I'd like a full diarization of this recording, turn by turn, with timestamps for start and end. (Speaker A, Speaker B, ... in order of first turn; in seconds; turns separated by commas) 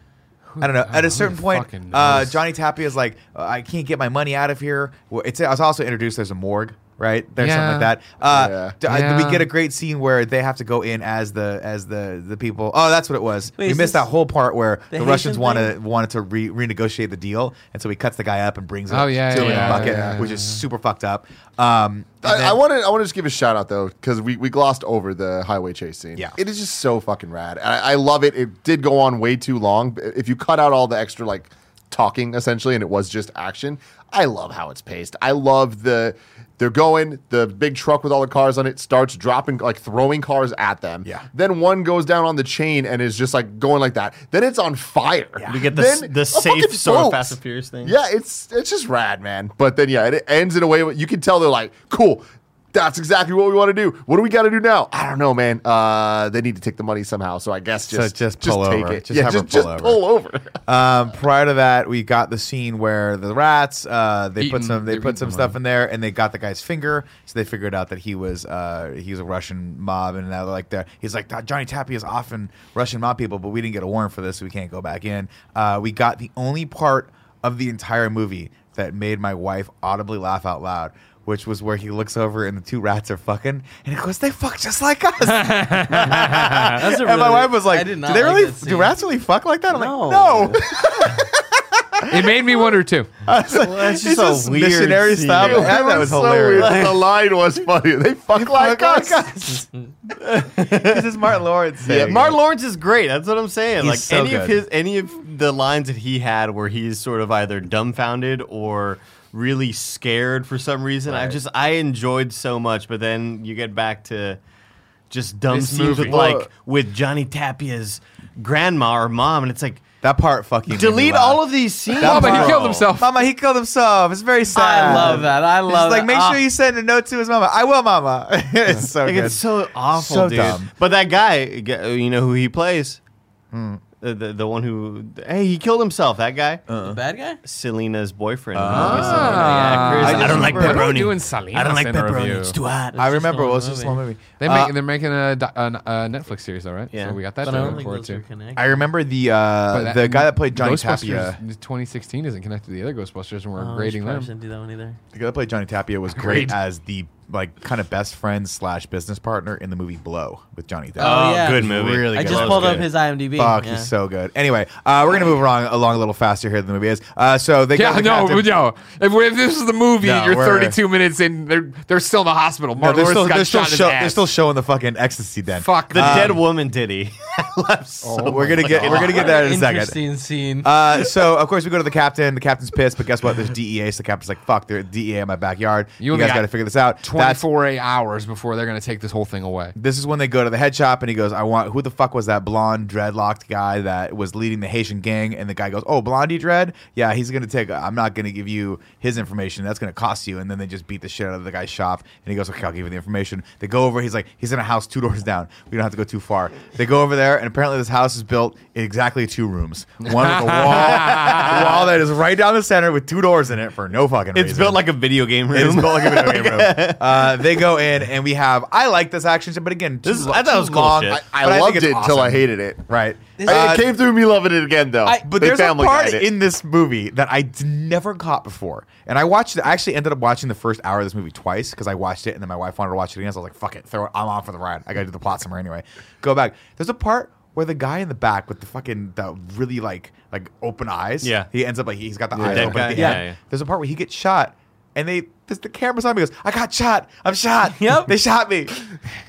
Speaker A: 0.5-2.4, Speaker B: 0.6-22.6, Speaker A: 7.4-7.9, Speaker C: 8.3-8.8, Speaker A: 8.8-9.5, Speaker D: 13.6-14.1, Speaker D: 14.9-15.7, Speaker A: 18.9-20.6, Speaker C: 19.4-20.2, Speaker C: 22.2-60.6, Speaker E: 45.5-47.9, Speaker B: 57.9-60.0, Speaker B: 60.6-91.2, Speaker A: 64.4-65.5, Speaker A: 85.2-86.7, Speaker D: 86.7-88.9, Speaker D: 89.7-90.6, Speaker C: 90.8-91.2, Speaker A: 92.1-93.1, Speaker B: 93.3-96.8, Speaker E: 93.4-97.0, Speaker C: 95.3-99.5, Speaker B: 98.3-99.7, Speaker E: 100.2-101.0, Speaker B: 100.7-102.4, Speaker E: 101.8-114.4, Speaker C: 101.9-102.2, Speaker B: 103.8-104.6, Speaker B: 111.1-111.4, Speaker E: 115.1-119.8, Speaker A: 115.5-116.4, Speaker B: 116.0-116.5, Speaker B: 120.0-130.7, Speaker E: 120.7-122.9, Speaker A: 121.9-123.1, Speaker D: 124.5-126.4, Speaker E: 129.0-133.0, Speaker B: 133.5-133.8, Speaker E: 134.0-136.6, Speaker B: 136.7-137.0, Speaker D: 136.8-137.4, Speaker E: 137.4-143.0, Speaker B: 138.5-141.0, Speaker A: 138.7-142.6, Speaker D: 142.9-144.0, Speaker B: 142.9-144.7, Speaker A: 144.4-148.2, Speaker E: 146.9-147.8, Speaker D: 147.4-148.8, Speaker B: 148.6-151.4, Speaker A: 149.7-154.3, Speaker D: 153.6-155.0, Speaker B: 155.1-168.6, Speaker A: 156.2-156.5, Speaker D: 161.0-163.9, Speaker E: 161.0-162.9, Speaker A: 167.7-174.3, Speaker B: 170.0-170.8, Speaker B: 172.8-176.4, Speaker A: 175.6-176.4, Speaker E: 175.9-179.3, Speaker C: 178.1-178.8, Speaker B: 178.2-180.0, Speaker D: 178.8-180.7, Speaker B: 180.6-187.4, Speaker A: 186.0-186.5, Speaker A: 187.0-189.7, Speaker B: 189.8-214.8, Speaker A: 210.0-211.7, Speaker E: 214.3-217.4, Speaker B: 215.5-223.9, Speaker E: 220.0-221.2, Speaker C: 221.1-222.8, Speaker D: 223.4-223.8, Speaker C: 223.5-226.3, Speaker D: 225.0-225.3, Speaker B: 225.2-248.8, Speaker E: 241.2-241.5, Speaker C: 242.3-243.0, Speaker E: 242.4-243.4, Speaker D: 247.8-248.1